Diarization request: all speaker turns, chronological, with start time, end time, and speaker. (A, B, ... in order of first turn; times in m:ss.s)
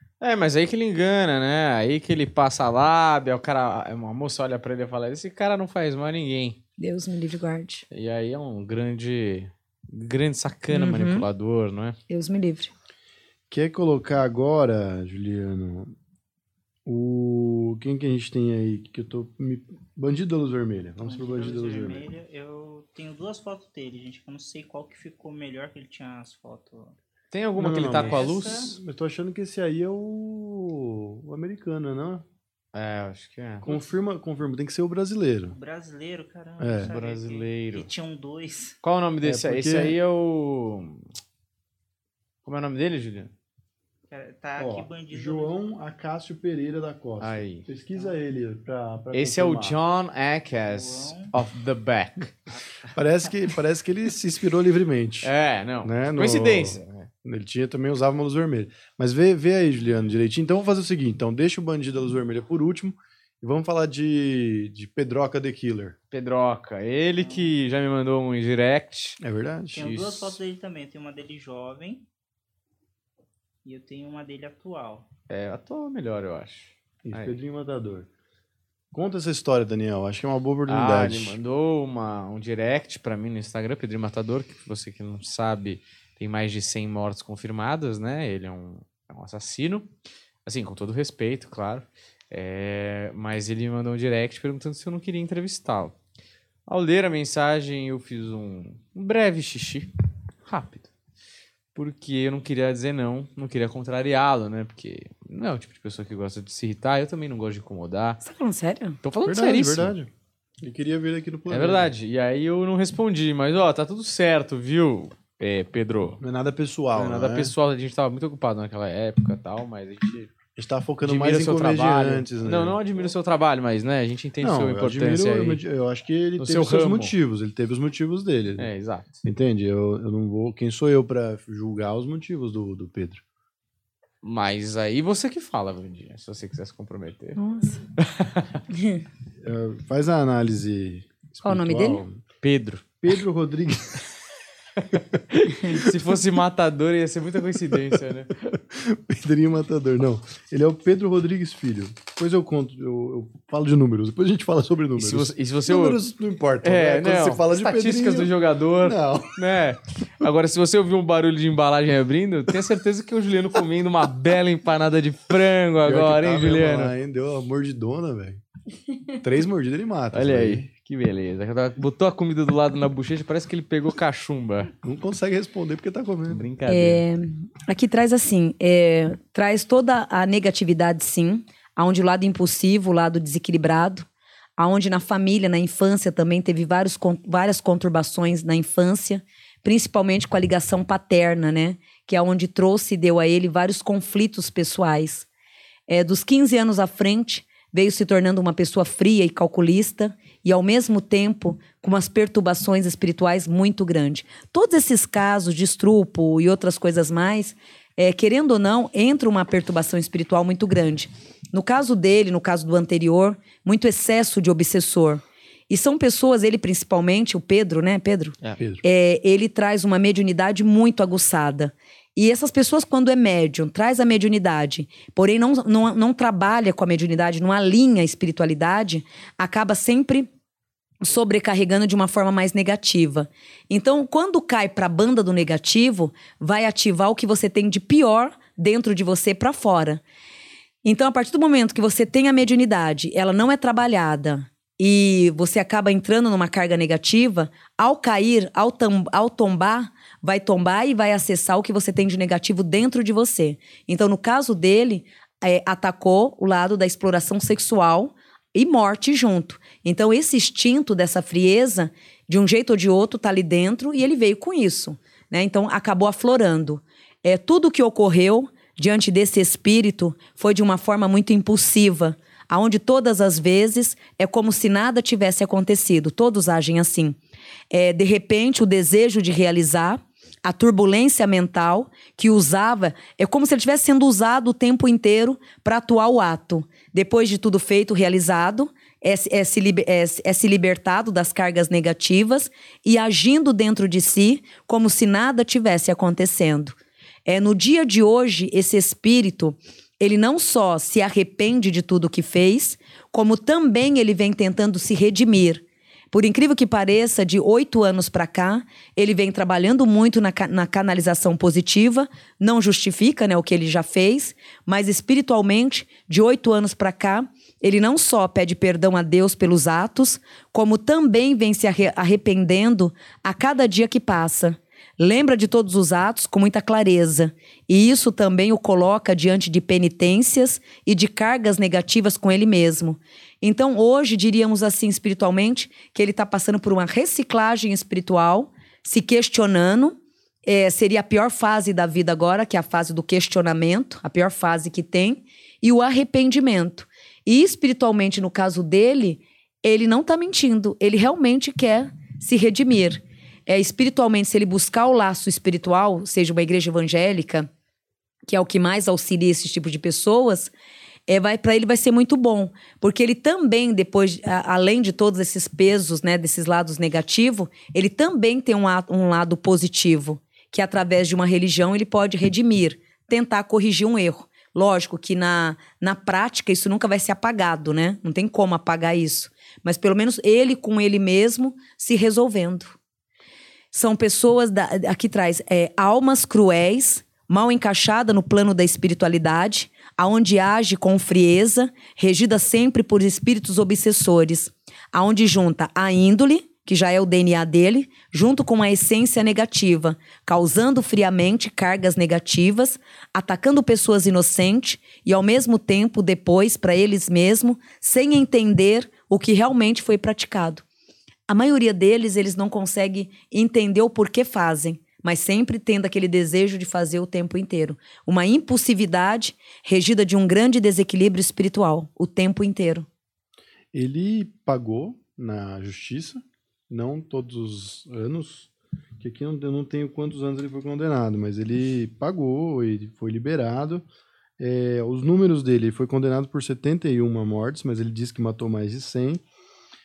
0:00.2-0:06.6 A
0:06.8-0:07.8 B
0:07.9-0:12.0 A
0:10.7-0:11.3 B
0:12.1-0:12.7 B
0:13.5-0:15.9 C
0:16.9-0:22.1 C
0:21.0-0:27.0 D
0:27.3-0:28.7 A
0:27.6-0:32.2 C
0:27.9-0:28.7 D
0:32.7-0:33.7 A
0:33.6-0:35.6 C
0:35.5-0:38.8 D
0:36.6-0:36.9 C
0:36.8-0:37.9 A
0:38.8-0:41.0 A
0:39.2-0:40.0 C
0:42.4-0:43.3 A
0:44.1-0:45.6 D
0:44.6-0:49.8 C
0:47.2-0:47.7 A
0:49.1-0:52.3 A
0:50.7-0:51.3 D
0:52.5-0:52.9 D
0:52.9-0:55.3 C
0:55.2-0:57.1 A
0:55.8-1:06.0 C
1:06.1-1:09.2 A
1:07.2-1:07.6 D
1:09.2-1:10.4 C
1:09.7-1:12.0 D
1:13.6-1:15.1 D
1:15.3-1:17.4 A
1:17.0-1:18.1 C
1:18.9-1:21.4 C
1:20.7-1:29.9 A
1:30.4-1:36.0 A
1:36.7-1:39.9 A
1:40.5-1:40.9 A
1:41.8-1:48.2 A
1:48.2-1:49.0 B
1:49.0-1:49.9 A
1:49.2-1:50.1 C
1:50.6-1:51.9 C
1:51.5-1:56.2 A
1:56.2-1:57.5 C
1:56.9-2:00.3 A
2:00.6-2:02.8 C
2:01.0-2:05.6 A
2:04.4-2:08.7 C
2:06.4-2:07.2 A
2:08.6-2:09.2 A
2:09.2-2:13.2 C
2:14.2-2:17.4 A
2:17.4-2:17.8 B
2:18.0-2:18.6 A
2:18.7-2:19.0 B
2:19.4-2:22.2 C
2:21.4-2:22.0 B
2:22.4-2:23.0 A
2:23.0-2:24.0 C
2:24.8-2:28.4 A
2:28.7-2:39.4 C
2:35.0-2:36.0 A
2:36.6-2:46.9 A
2:45.8-2:48.4 C
2:49.2-2:50.7 C
2:50.1-2:54.7 A
2:54.8-2:56.5 C
2:56.3-2:57.0 A
2:56.7-3:15.3 B
3:15.9-3:50.3 B
3:38.6-3:38.8 C
3:51.0-4:00.0 B
4:00.8-4:37.2 B
4:37.7-5:57.5 B
5:58.3-6:00.5 B
6:01.1-6:22.8 B
6:23.7-6:50.6 B
6:51.3-7:02.9 B
7:03.7-7:13.8 C
7:14.4-7:19.2 C